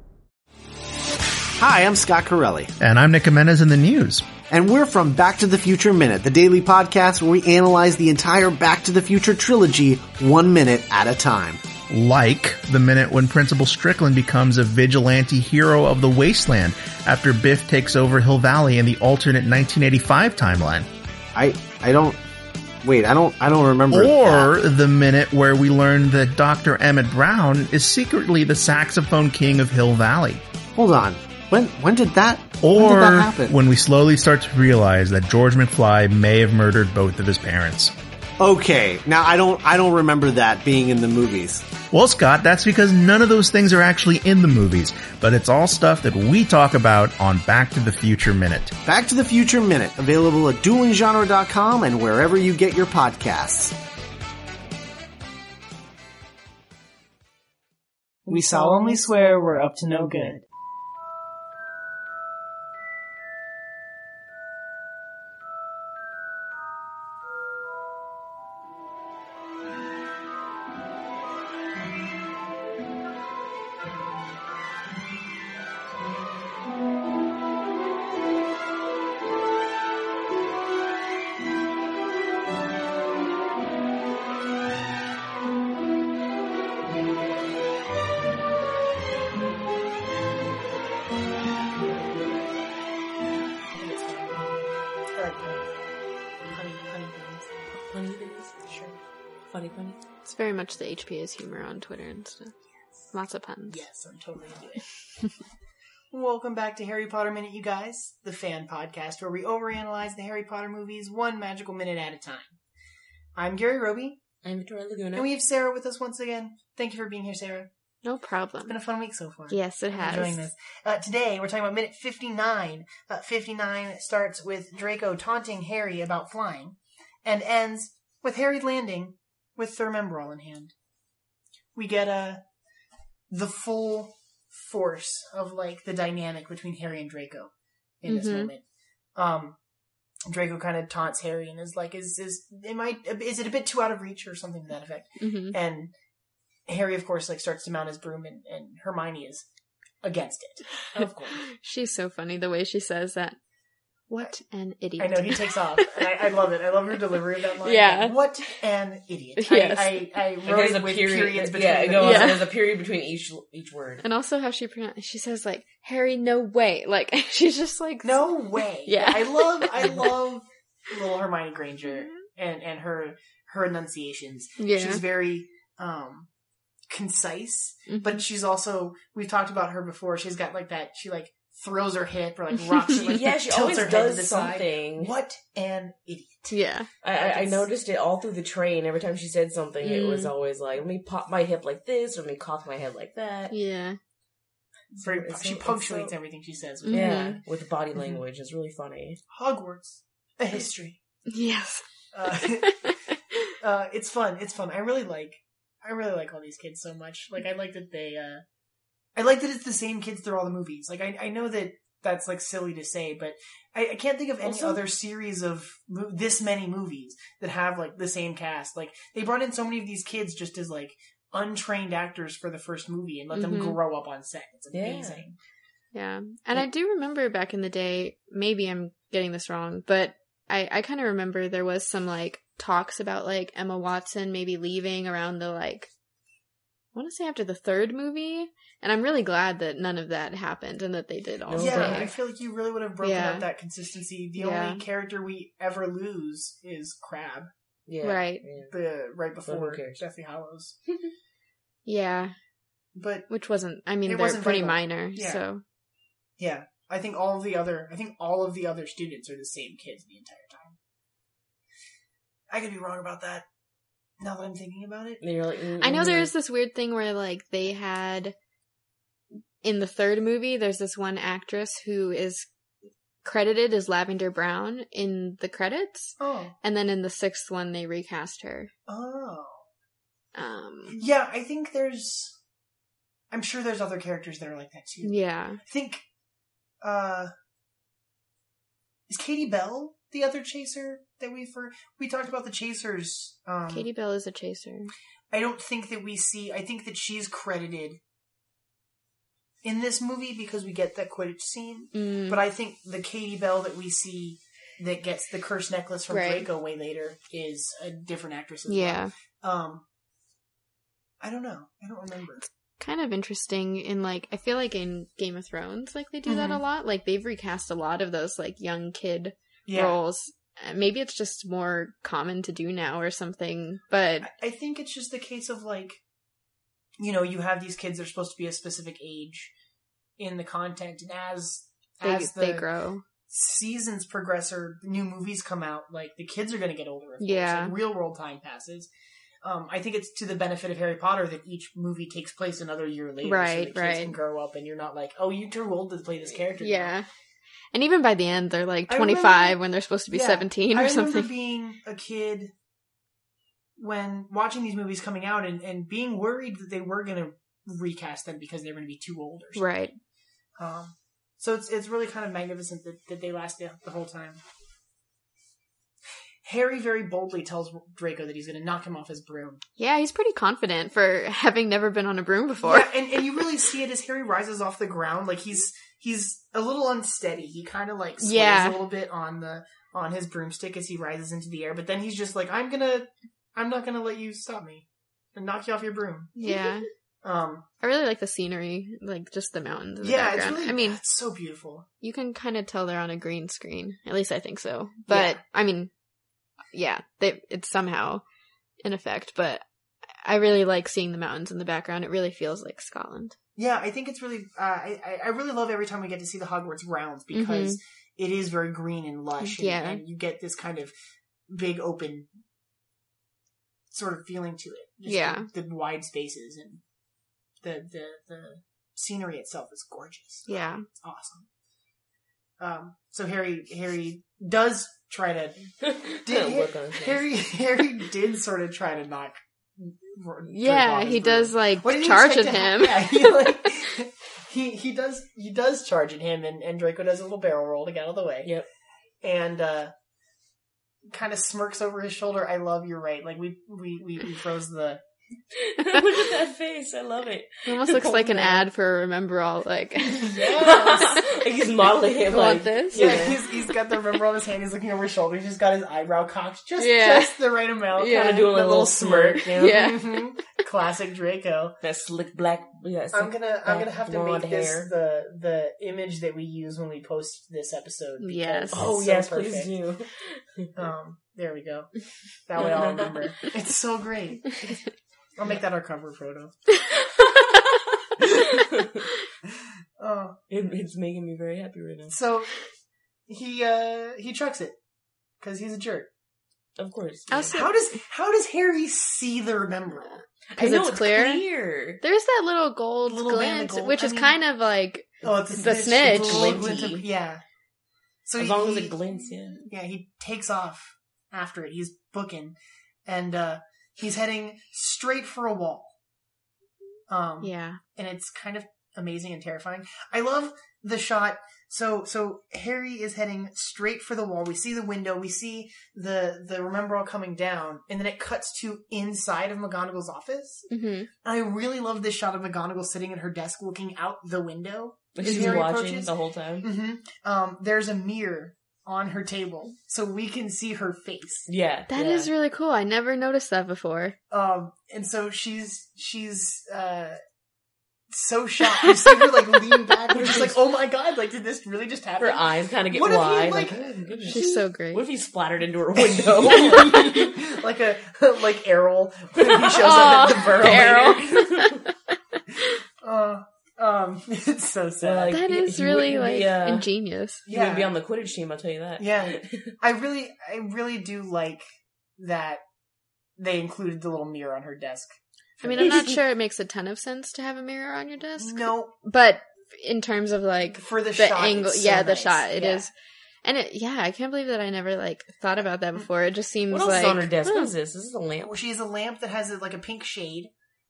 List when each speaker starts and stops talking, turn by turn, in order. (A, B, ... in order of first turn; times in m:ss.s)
0:01.6-0:02.7 A
0:02.8-0:04.4 B
0:04.4-0:11.6 A
0:11.9-0:20.9 B
0:21.3-0:22.2 A
0:22.8-0:24.5 A
0:23.9-0:30.4 B
0:30.8-0:33.5 A
0:32.6-0:37.9 B
0:38.4-0:41.8 A
0:41.9-0:48.7 B
0:48.8-0:53.8 A
0:58.3-1:00.4 C
1:33.7-1:34.6 C
1:35.1-1:35.7 C
1:36.5-1:37.6 C
1:37.7-1:38.6 D
1:38.6-1:39.0 C
1:39.5-1:40.0 D
1:40.2-1:42.6 E
1:43.1-1:43.8 E
1:43.7-1:44.8 C
1:46.1-1:52.6 C
1:53.4-1:54.2 C
1:54.4-1:55.3 D
1:55.1-1:57.7 C
1:58.0-1:58.8 E
1:58.7-2:10.7 C
1:59.5-2:00.5 E
2:11.8-2:12.4 C
2:13.3-2:18.6 C
2:18.0-2:18.5 E
2:19.2-2:19.6 C
2:20.3-2:25.9 C
2:25.2-2:25.6 E
2:26.7-2:29.5 C
2:30.0-2:31.4 C
2:31.0-2:33.4 E
2:34.1-2:34.4 C
2:34.2-2:36.1 E
2:35.0-2:42.4 C
2:37.6-2:38.2 E
2:39.4-2:40.1 E
2:40.5-2:44.0 D
2:42.0-2:42.4 E
2:44.0-2:50.0 E
2:48.0-2:56.3 C
2:51.9-2:52.2 E
2:54.6-2:55.0 E
2:56.9-3:06.6 C
2:57.9-2:58.2 E
3:03.0-3:05.1 D
3:06.5-3:06.9 E
3:07.0-3:13.6 D
3:07.1-3:07.7 C
3:09.8-3:10.3 E
3:13.5-3:14.0 E
3:14.9-3:16.1 D
3:15.0-3:17.4 C
3:16.9-3:17.4 E
3:16.9-3:19.2 D
3:19.3-3:21.0 C
3:21.3-3:23.0 E
3:22.1-3:22.9 C
3:23.6-3:28.4 C
3:29.2-3:45.4 C
3:34.4-3:34.8 D
3:43.3-3:43.8 E
3:44.7-3:45.2 D
3:45.9-3:55.9 E
3:56.9-4:02.1 E
4:01.4-4:02.1 D
4:01.6-4:07.5 C
4:03.0-4:03.5 E
4:04.4-4:04.8 E
4:07.9-4:08.7 D
4:08.0-4:08.4 E
4:08.6-4:10.8 C
4:09.4-4:10.0 D
4:11.8-4:12.4 E
4:13.0-4:13.3 C
4:13.3-4:15.6 E
4:14.0-4:15.4 C
4:16.4-4:20.8 C
4:22.5-4:23.5 C
4:24.2-4:25.2 C
4:25.2-4:26.3 D
4:25.8-4:28.4 E
4:29.6-4:32.5 E
4:33.2-4:38.7 E
4:36.2-4:36.6 C
4:38.9-4:39.7 C
4:40.4-4:41.1 E
4:40.9-4:42.4 C
4:43.3-4:46.0 C
4:45.0-4:45.6 E
4:46.8-4:47.3 C
4:49.1-4:53.9 C
4:53.7-4:54.9 E
4:55.3-4:58.0 C
4:59.6-5:09.8 C
5:01.9-5:02.4 E
5:06.1-5:06.5 E
5:08.7-5:09.1 E
5:11.2-5:12.5 C
5:12.4-5:24.3 E
5:16.2-5:16.6 C
5:19.7-5:20.0 C
5:24.2-5:26.0 C
5:27.0-5:29.5 C
5:30.2-5:32.7 C
5:32.0-5:33.0 E
5:33.3-5:38.9 C
5:37.2-5:37.8 E
5:39.4-5:47.0 C
5:43.2-5:44.2 E
5:46.6-5:47.1 E
5:47.7-5:51.3 E
5:48.9-5:52.5 C
5:53.8-5:59.7 C
5:59.6-6:00.0 E
6:00.6-6:04.4 C
6:06.4-6:09.6 C
6:09.8-6:12.9 E
6:12.6-6:26.7 C
6:18.2-6:18.8 E
6:26.4-6:26.9 E
6:27.2-6:27.6 C
6:27.8-6:31.0 E
6:30.0-6:31.9 C
6:32.0-6:35.9 E
6:35.1-6:35.4 C
6:36.7-6:38.2 E
6:38.8-6:39.6 E
6:40.2-6:43.4 E
6:43.6-6:50.9 C
6:47.3-6:47.8 E
6:49.4-6:50.0 E
6:51.5-6:52.3 C
6:53.9-6:56.8 C
6:55.0-6:55.5 E
6:57.6-7:00.5 C
7:00.5-7:00.9 E
7:01.0-7:01.5 C
7:02.6-7:18.6 C
7:05.8-7:07.2 D
7:10.5-7:13.6 E
7:19.2-7:19.9 C
7:21.1-7:25.0 C
7:25.6-7:28.3 D
7:27.7-7:31.3 E
7:28.1-7:28.7 C
7:30.0-7:31.2 C
7:30.6-7:33.4 D
7:32.2-7:33.3 E
7:32.9-7:41.8 C
7:36.8-7:37.4 E
7:38.0-7:38.5 E
7:38.0-7:39.7 D
7:39.6-7:40.4 E
7:41.8-7:44.9 D
7:43.1-7:49.7 C
7:48.2-7:48.9 E
7:48.7-7:50.7 D
7:50.8-7:51.9 C
7:52.4-7:54.6 C
7:52.6-7:53.1 D
7:55.4-7:56.6 C
7:58.4-7:59.0 D
8:00.0-8:00.4 C
8:00.5-8:02.2 D
8:02.1-8:02.5 C
8:03.3-8:04.8 C
8:05.4-8:06.1 C
8:06.8-8:07.6 D
8:07.3-8:07.7 E
8:07.5-8:10.2 C
8:10.5-8:12.0 D
8:10.6-8:11.4 E
8:12.0-8:16.8 E
8:13.1-8:14.4 C
8:15.2-8:17.4 C
8:15.9-8:17.0 D
8:18.3-8:26.0 C
8:18.4-8:19.7 D
8:27.1-8:40.7 C
8:27.4-8:27.8 E
8:40.7-8:41.1 E
8:41.2-8:51.5 C
8:45.2-8:46.7 D
8:51.5-8:52.3 D
8:51.9-8:54.2 E
8:54.3-8:57.2 C
8:58.1-9:04.5 C
9:00.1-9:00.6 D
9:02.2-9:07.4 D
9:04.3-9:05.0 E
9:06.0-9:11.4 C
9:09.5-9:11.7 D
9:09.7-9:11.9 E
9:13.0-9:15.4 C
9:15.0-9:16.9 D
9:15.3-9:17.4 E
9:17.5-9:17.9 C
9:17.5-9:19.7 D
9:19.0-9:21.6 C
9:22.2-9:22.6 C
9:23.4-9:26.2 C
9:25.6-9:32.9 E
9:25.8-9:26.1 D
9:28.4-9:29.0 C
9:30.7-9:32.9 C
9:33.4-9:37.7 E
9:36.7-9:38.6 D
9:38.4-9:40.5 C